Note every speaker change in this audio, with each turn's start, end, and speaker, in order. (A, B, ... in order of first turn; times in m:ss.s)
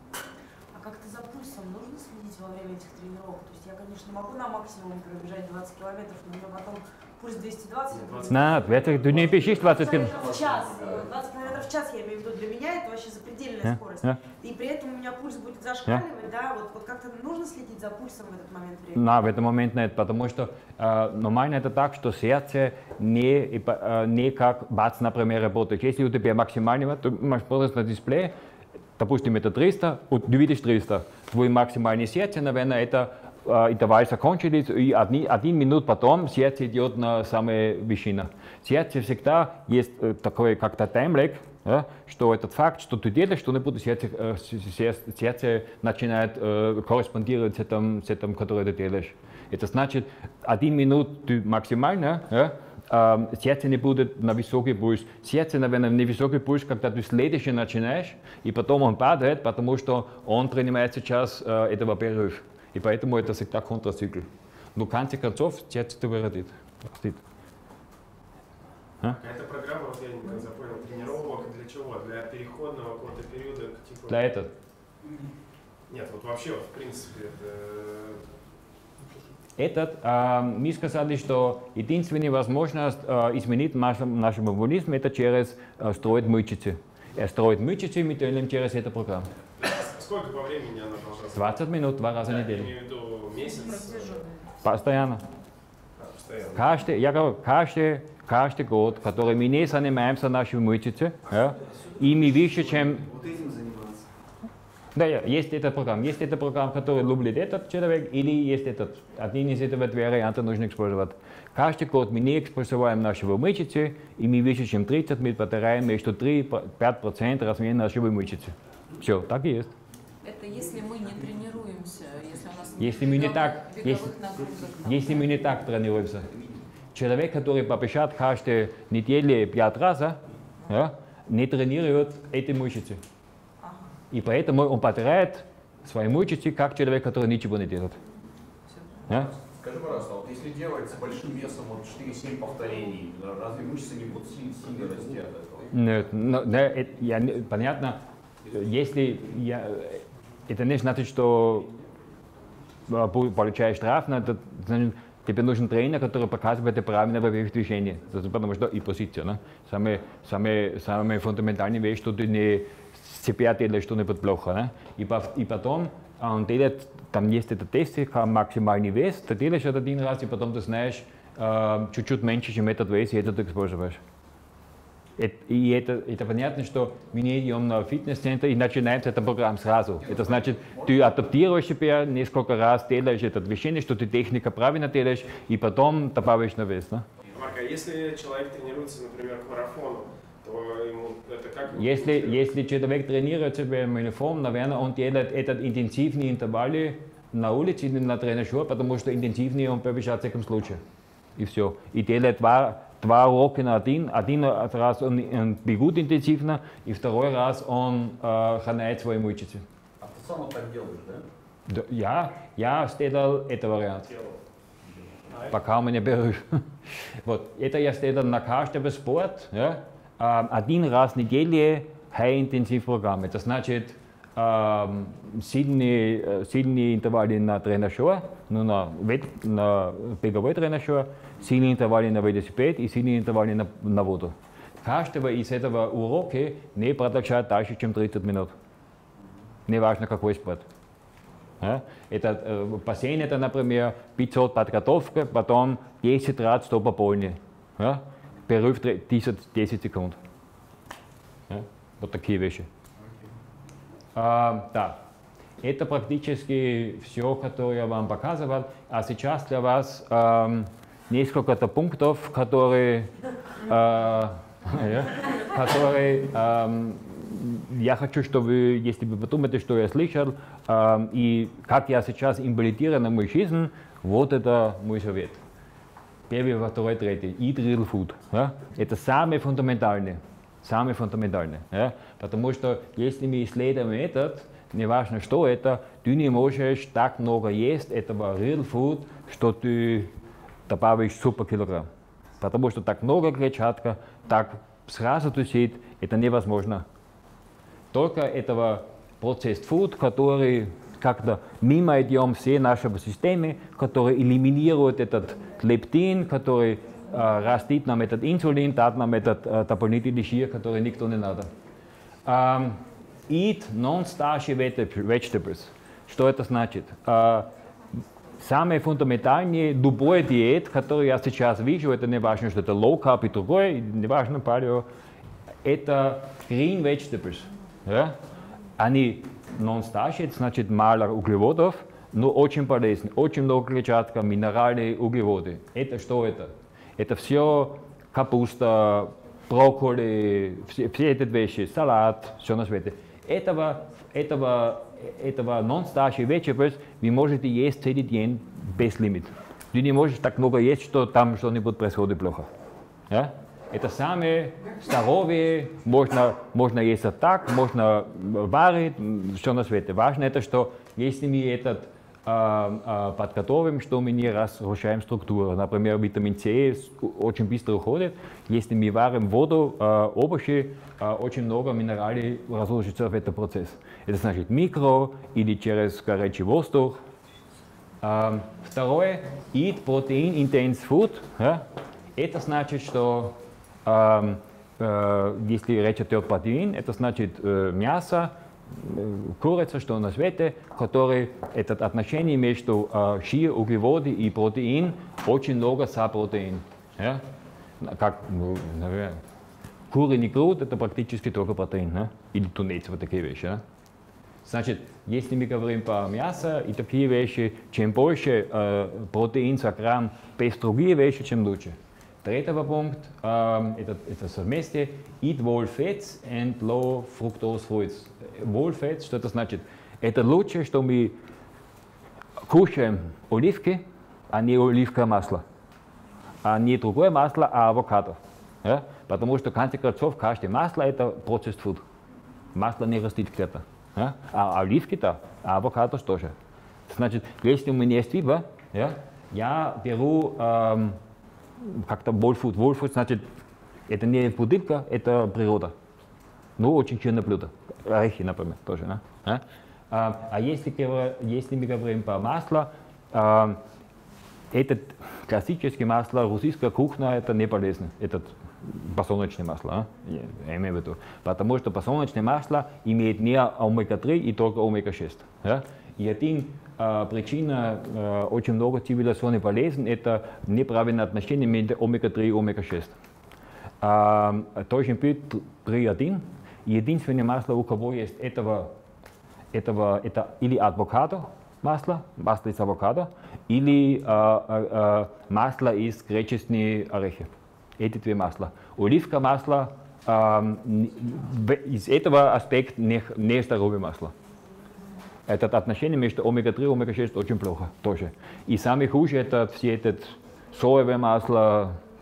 0:00.7-0:19.0 A
0:08.3-0:10.2 B
0:09.0-0:11.1 C
0:13.6-0:14.2 B
0:18.9-0:28.3 B
0:29.0-1:07.2 B
1:09.1-1:14.2 D
1:14.1-1:14.5 B
1:15.9-1:18.2 D
1:19.6-1:29.3 B
1:29.6-1:31.5 D
1:31.3-1:32.7 B
1:32.3-1:34.2 D
1:34.6-1:35.2 B
1:36.0-1:36.6 D
1:36.5-1:43.0 B
1:42.5-1:44.0 C
1:45.0-1:59.7 B
2:00.2-2:05.4 E
2:02.8-2:04.1 B
2:04.8-2:06.4 B
2:06.9-2:13.0 B
2:13.6-2:13.9 E
2:14.1-2:18.0 B
2:19.1-2:25.7 C
2:25.7-2:31.7 B
2:32.9-2:54.0 B
2:55.2-3:07.0 B
3:00.1-3:00.9 C
3:07.3-3:12.4 D
3:11.8-3:20.8 B
3:21.4-3:29.6 B
3:30.0-3:31.3 C
3:31.7-3:34.1 B
3:35.5-3:58.5 B
3:59.7-4:00.6 B
4:01.6-4:10.2 B
4:11.5-4:12.7 B
4:14.1-4:15.0 B
4:15.6-4:23.1 B
4:23.6-4:35.4 B
4:36.3-4:50.1 B
4:50.7-4:51.9 B
4:52.4-4:56.8 B
4:57.9-5:11.5 B
5:12.2-5:17.5 B
5:18.4-5:24.8 B
5:25.6-5:28.2 B
5:28.8-5:52.5 B
5:53.1-6:17.0 B
6:18.0-6:21.6 B
6:22.2-6:37.2 B
6:37.8-6:39.2 B
6:39.9-6:43.6 B
6:44.4-7:01.2 B
7:02.4-7:05.4 B
7:06.4-7:11.8 B
7:12.5-7:16.3 B
7:16.9-7:21.0 B
7:21.6-7:23.2 B
7:23.9-7:25.7 B
7:26.6-7:33.6 B
7:34.5-7:52.9 B
7:53.8-7:58.7 B
7:59.5-8:14.1 B
8:15.3-8:21.8 B